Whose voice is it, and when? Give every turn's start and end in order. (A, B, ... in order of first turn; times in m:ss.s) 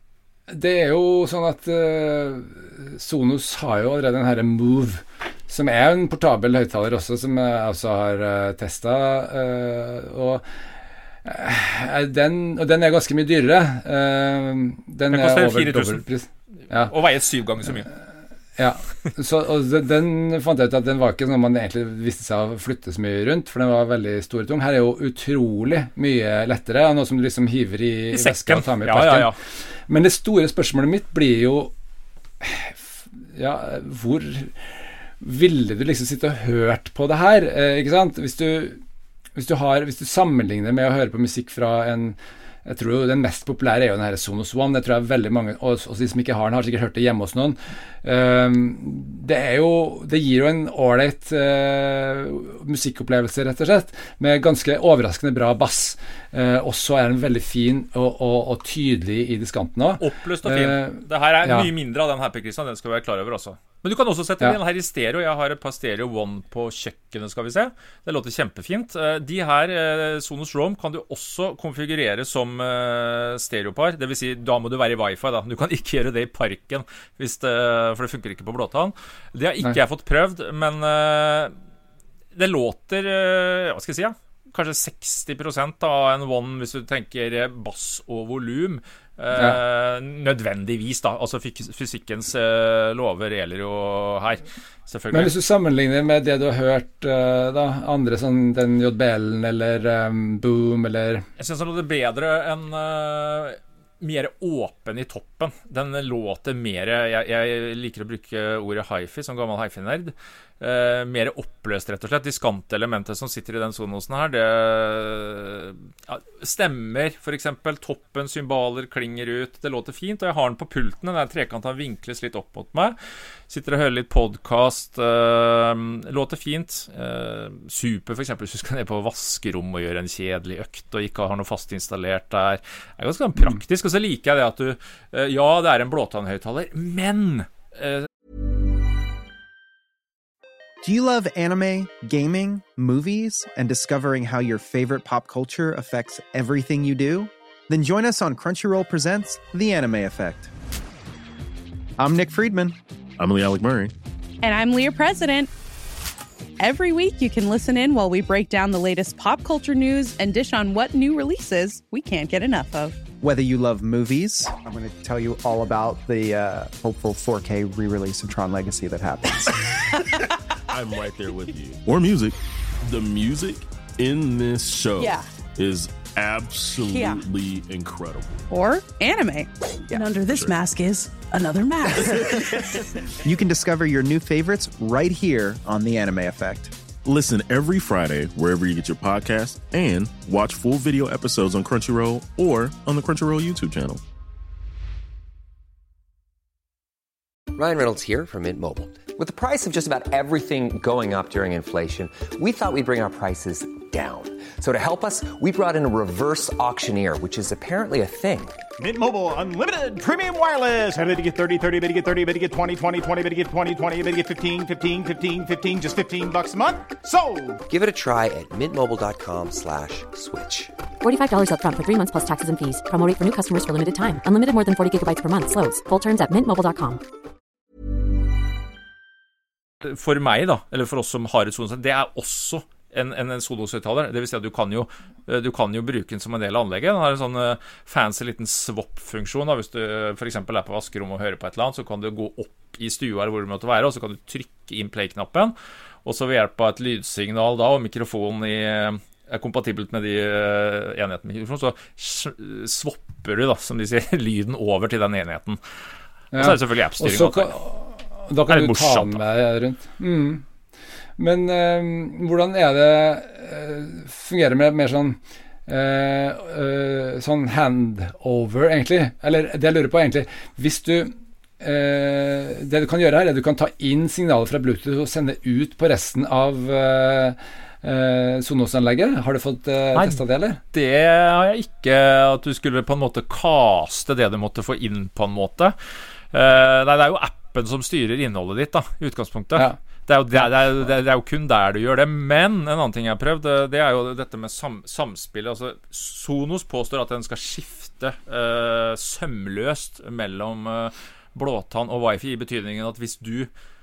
0:00.5-0:10.4 A
0:11.2-0:16.9 A
0:15.1-0:16.0 B
0:16.8-0:17.9 B
0:18.6-0:29.3 A
0:28.1-0:29.4 B
0:29.9-0:31.7 A
0:32.4-0:38.8 A
0:39.4-1:01.7 A
1:00.0-1:21.5 B
1:22.4-1:35.3 B
1:35.1-1:41.3 A
1:41.4-2:03.0 B
2:03.5-2:18.1 B
2:20.8-2:30.5 C
2:32.0-2:32.8 C
2:33.2-2:33.9 D
2:34.4-2:35.5 E
2:36.6-2:43.0 E
2:43.2-2:49.9 C
2:50.7-2:58.4 D
2:55.0-2:55.3 E
2:56.9-2:57.2 E
2:58.5-2:59.5 E
3:00.0-3:02.0 F
3:00.0-3:00.4 E
3:00.2-3:00.6 D
3:01.8-3:02.7 E
3:03.2-3:06.8 C
3:07.0-3:14.0 D
3:17.6-3:28.6 G
3:28.8-3:37.6 H
3:37.7-3:41.1 G
3:41.2-3:47.0 I
3:49.8-4:15.6 B
4:16.3-4:20.4 A
4:16.3-4:17.6 B
4:18.5-4:19.2 B
4:21.2-4:40.6 A
4:39.9-4:45.8 B
4:46.3-5:03.5 B